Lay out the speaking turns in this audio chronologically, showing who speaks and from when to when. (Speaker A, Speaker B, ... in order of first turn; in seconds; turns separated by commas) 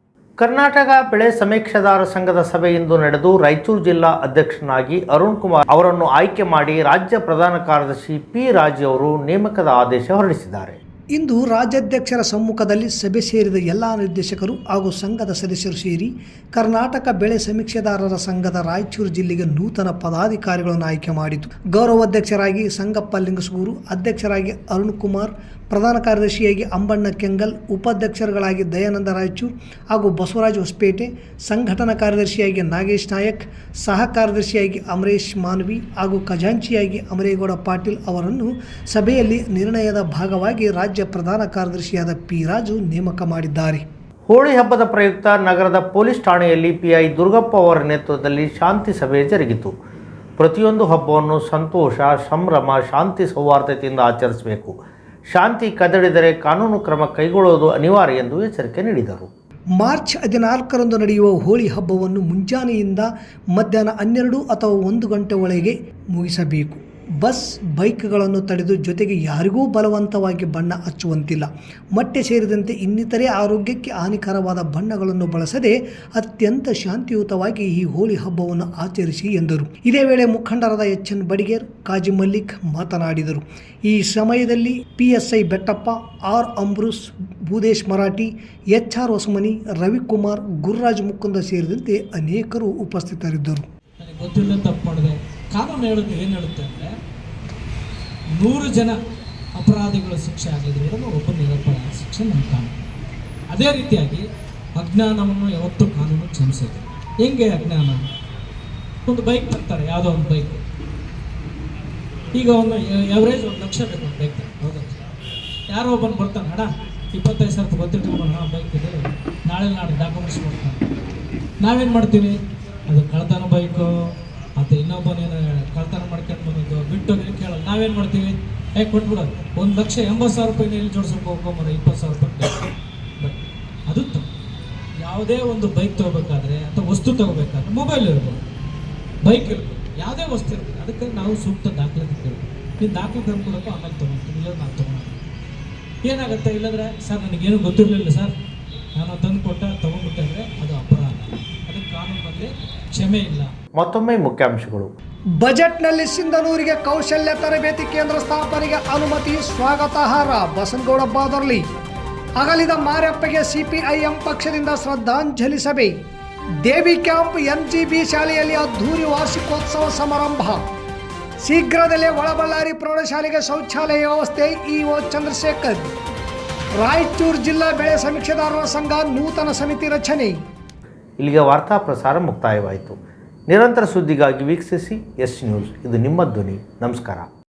Speaker A: 0.4-10.8, Speaker B: 11.1-43.8, Speaker A: 44.3-49.7, Speaker A: 50.4-54.7, Speaker A: 55.3-59.3, Speaker B: 59.8-93.6, Speaker C: 94.0-96.9, Speaker C: 98.4-99.0, Speaker C: 99.5-102.8, Speaker C: 103.5-104.2, Speaker C: 104.8-108.0, Speaker C: 109.0-110.6, Speaker C: 112.3-115.0, Speaker C: 115.7-120.8, Speaker C: 121.6-122.4, Speaker C: 122.9-124.0, Speaker C: 124.5-132.7, Speaker C: 133.2-134.3, Speaker C: 135.0-138.4, Speaker C: 139.2-145.2, Speaker C: 146.0-148.3, Speaker C: 148.9-153.5, Speaker A: 153.7-154.9, Speaker B: 155.4-161.7, Speaker B: 162.4-165.9, Speaker B: 166.6-170.6, Speaker B: 171.4-175.9, Speaker B: 176.8-180.3, Speaker A: 181.2-183.0, Speaker A: 183.5-187.3